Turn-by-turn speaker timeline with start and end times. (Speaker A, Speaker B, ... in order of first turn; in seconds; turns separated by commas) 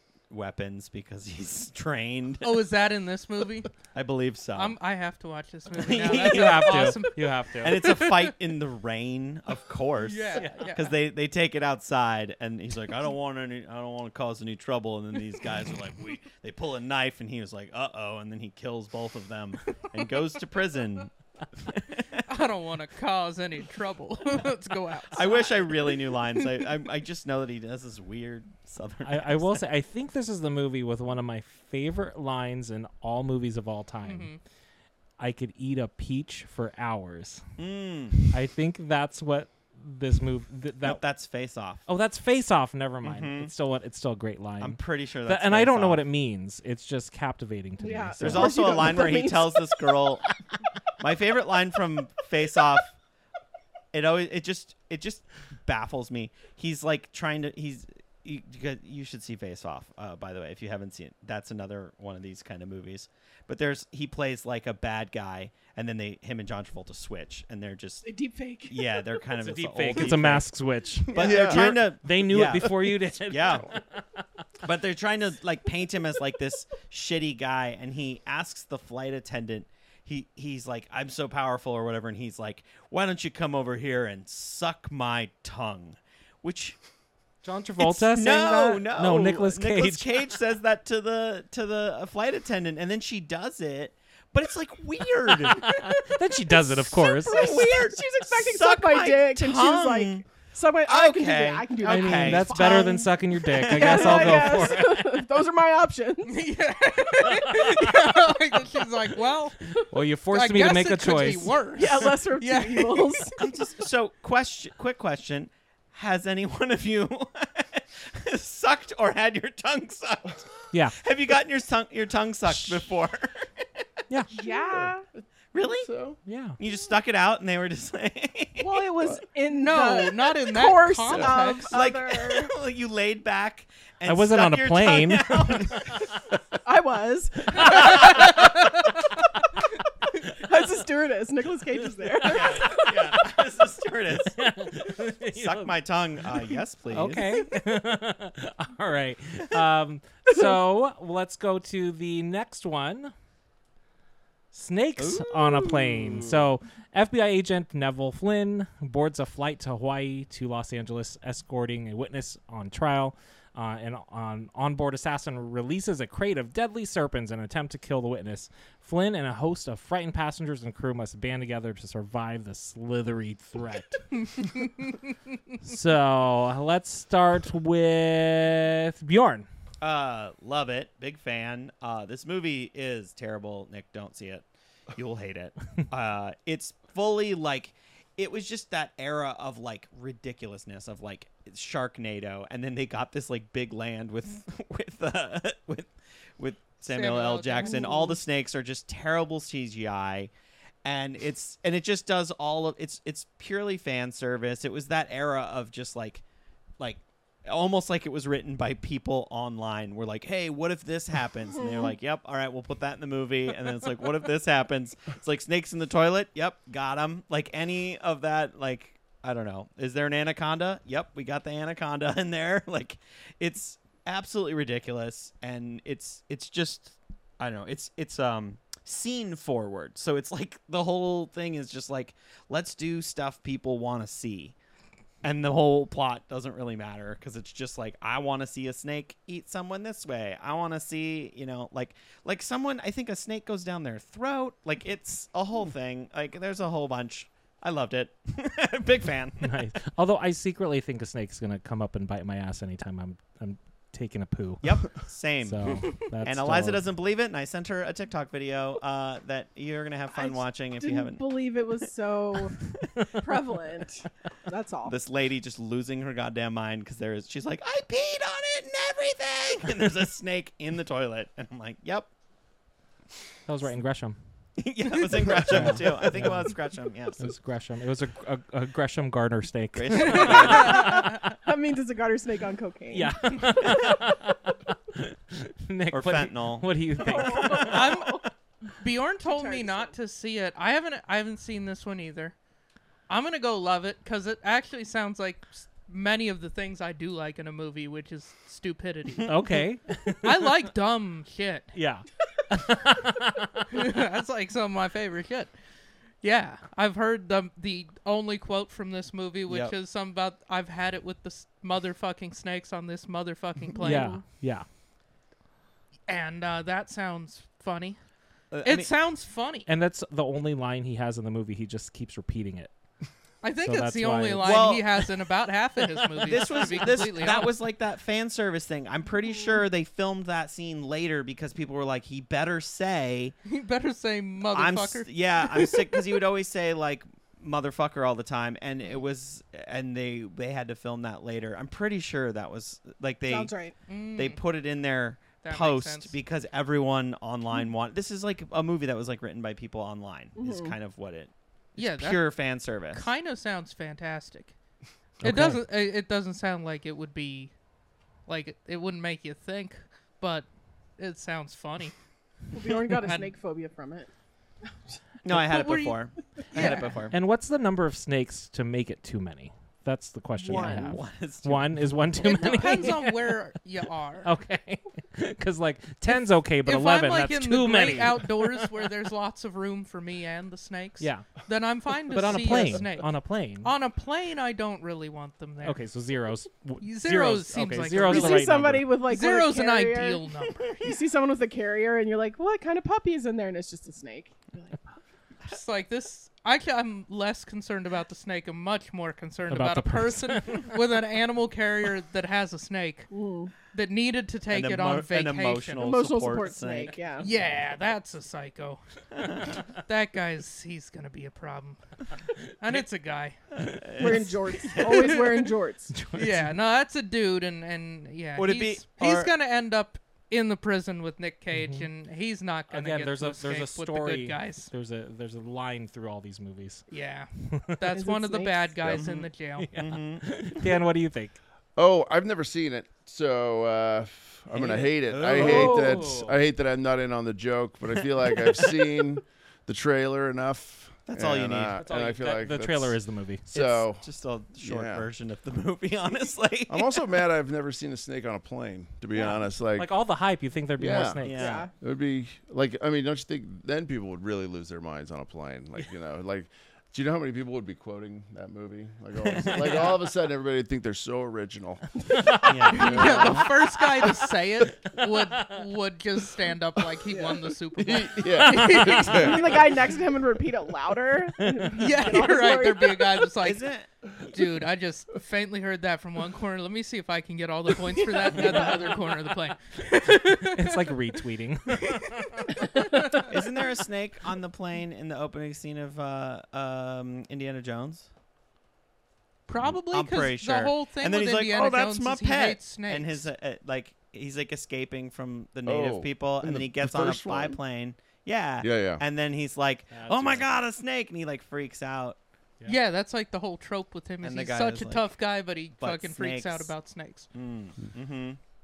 Speaker A: 0.3-2.6, Speaker B: 2.4-3.7, Speaker A: 3.9-4.8, Speaker B: 4.5-8.3, Speaker A: 5.8-7.0, Speaker C: 5.9-8.1, Speaker A: 7.6-22.2, Speaker B: 10.0-10.9, Speaker C: 10.4-10.7, Speaker B: 22.3-26.5, Speaker A: 25.1-29.6, Speaker C: 29.0-34.3, Speaker B: 34.0-34.4, Speaker C: 35.2-37.5, Speaker A: 37.6-38.3, Speaker C: 38.3-41.0, Speaker A: 40.8-41.8, Speaker C: 41.9-48.9, Speaker A: 43.0-43.5, Speaker A: 44.6-46.0, Speaker D: 47.8-49.9, Speaker A: 48.2-50.3, Speaker A: 51.0-53.0, Speaker A: 53.9-68.1, Speaker D: 68.0-69.0, Speaker A: 68.7-70.5, Speaker C: 69.4-74.2, Speaker A: 71.1-73.7, Speaker E: 71.1-71.9, Speaker A: 74.6-86.8, Speaker C: 87.4-90.3, Speaker A: 87.8-100.3, Speaker C: 95.4-97.7, Speaker D: 97.0-106.5, Speaker A: 100.8-102.8, Speaker C: 101.8-105.3, Speaker A: 103.5-104.7, Speaker B: 106.2-113.3, Speaker C: 107.2-107.9, Speaker C: 109.7-111.6, Speaker D: 111.8-113.4, Speaker A: 113.4-123.5, Speaker C: 120.7-121.0, Speaker D: 124.3-125.0, Speaker E: 124.4-125.2, Speaker A: 125.5-125.9, Speaker E: 125.8-126.2, Speaker C: 126.3-126.6, Speaker A: 126.6-128.9, Speaker D: 128.6-132.5, Speaker B: 129.5-131.7, Speaker A: 131.7-136.0, Speaker C: 134.1-136.1, Speaker D: 136.6-138.4, Speaker C: 137.7-138.1, Speaker B: 138.1-138.4, Speaker D: 140.3-142.9, Speaker C: 142.0-142.9, Speaker A: 142.2-144.4, Speaker C: 144.3-145.8, Speaker A: 145.3-147.4, Speaker C: 146.9-153.1, Speaker C: 154.5-174.5, Speaker A: 155.0-155.7, Speaker B: 174.2-175.0, Speaker C: 175.6-179.5, Speaker A: 179.8-200.3, Speaker B: 196.8-198.1, Speaker D: 197.6-198.1, Speaker A: 200.8-206.2, Speaker A: 206.8-234.6, Speaker D: 211.6-211.9, Speaker A: 235.2-249.7, Speaker C: 249.4-256.9, Speaker A: 254.6-261.4, Speaker D: 260.1-264.9, Speaker A: 264.9-272.1, Speaker C: 273.5-274.2, Speaker A: 274.6-277.3, Speaker C: 275.4-276.6, Speaker C: 277.2-281.2, Speaker A: 279.7-280.9, Speaker D: 280.1-284.0, Speaker B: 280.2-281.2, Speaker C: 282.9-287.9, Speaker A: 285.9-288.1, Speaker D: 287.0-288.3, Speaker B: 287.6-292.4, Speaker D: 289.3-289.9, Speaker B: 293.1-299.6, Speaker C: 299.2-300.6, Speaker B: 300.2-301.7, Speaker C: 301.7-303.9, Speaker B: 303.7-305.5, Speaker B: 306.2-314.2, Speaker A: 309.5-309.7, Speaker C: 313.8-314.7, Speaker D: 313.9-314.2, Speaker B: 316.1-318.0, Speaker A: 318.5-318.9, Speaker B: 318.6-319.7, Speaker C: 319.7-322.7, Speaker B: 323.4-327.5, Speaker C: 323.6-324.9, Speaker A: 324.4-324.9, Speaker A: 326.2-333.4, Speaker B: 333.5-336.0, Speaker A: 334.5-343.5, Speaker D: 343.3-343.8, Speaker B: 343.9-344.4, Speaker A: 344.1-353.1, Speaker B: 345.4-346.1, Speaker D: 350.4-350.8, Speaker B: 351.8-352.3, Speaker B: 352.9-354.5, Speaker C: 355.2-355.6, Speaker B: 355.2-357.5, Speaker B: 358.3-360.5, Speaker B: 361.0-361.9, Speaker D: 362.5-364.1, Speaker B: 362.9-363.3, Speaker A: 365.2-367.2, Speaker B: 365.3-366.9, Speaker C: 367.1-373.3, Speaker D: 370.4-371.0, Speaker A: 370.5-371.9, Speaker D: 372.2-372.7, Speaker B: 372.2-374.3, Speaker C: 374.2-378.8, Speaker B: 376.1-385.8, Speaker C: 381.0-381.4, Speaker C: 382.1-383.7, Speaker C: 385.6-388.9, Speaker B: 386.8-390.8, Speaker D: 388.0-390.2, Speaker A: 390.6-390.9, Speaker D: 390.8-395.0, Speaker B: 395.5-403.1, Speaker C: 399.5-400.8, Speaker D: 403.1-403.5, Speaker B: 403.6-405.9, Speaker A: 404.5-407.0, Speaker D: 405.8-407.3, Speaker B: 407.2-411.8, Speaker A: 409.2-409.5, Speaker B: 412.6-413.4, Speaker A: 413.5-415.2, Speaker D: 414.0-415.9, Speaker B: 414.7-415.5, Speaker C: 415.9-416.6, Speaker B: 416.1-424.7, Speaker A: 418.4-419.3, Speaker C: 421.5-421.9, Speaker C: 422.7-426.8, Speaker B: 426.9-429.8, Speaker C: 427.4-427.8, Speaker D: 427.9-429.0, Speaker A: 428.9-430.6, Speaker C: 429.6-431.4, Speaker E: 431.8-444.1, Speaker A: 434.5-436.0, Speaker C: 435.3-436.4, Speaker A: 441.1-441.8, Speaker C: 441.8-443.5, Speaker A: 443.5-447.1, Speaker E: 444.6-445.1, Speaker E: 446.7-449.9, Speaker C: 449.2-451.5, Speaker E: 450.8-451.2, Speaker A: 451.2-451.7, Speaker D: 451.3-451.7, Speaker E: 451.8-461.9, Speaker A: 459.2-460.0, Speaker C: 462.1-462.6, Speaker A: 462.4-463.4, Speaker E: 462.7-463.6, Speaker B: 462.7-469.7, Speaker C: 465.3-465.6, Speaker D: 467.1-467.4, Speaker E: 467.8-469.8, Speaker D: 468.7-473.3, Speaker C: 471.4-471.8, Speaker B: 471.7-473.6, Speaker A: 473.4-473.9, Speaker B: 474.2-481.0, Speaker C: 478.3-478.7, Speaker C: 480.2-483.2, Speaker B: 481.8-483.2, Speaker A: 483.3-488.1, Speaker B: 489.5-493.3, Speaker A: 489.9-502.2, Speaker E: 495.7-497.6, Speaker E: 498.6-499.0, Speaker C: 499.9-500.5, Speaker B: 502.7-507.3, Speaker A: 504.2-505.1, Speaker A: 505.8-506.7, Speaker A: 507.3-508.4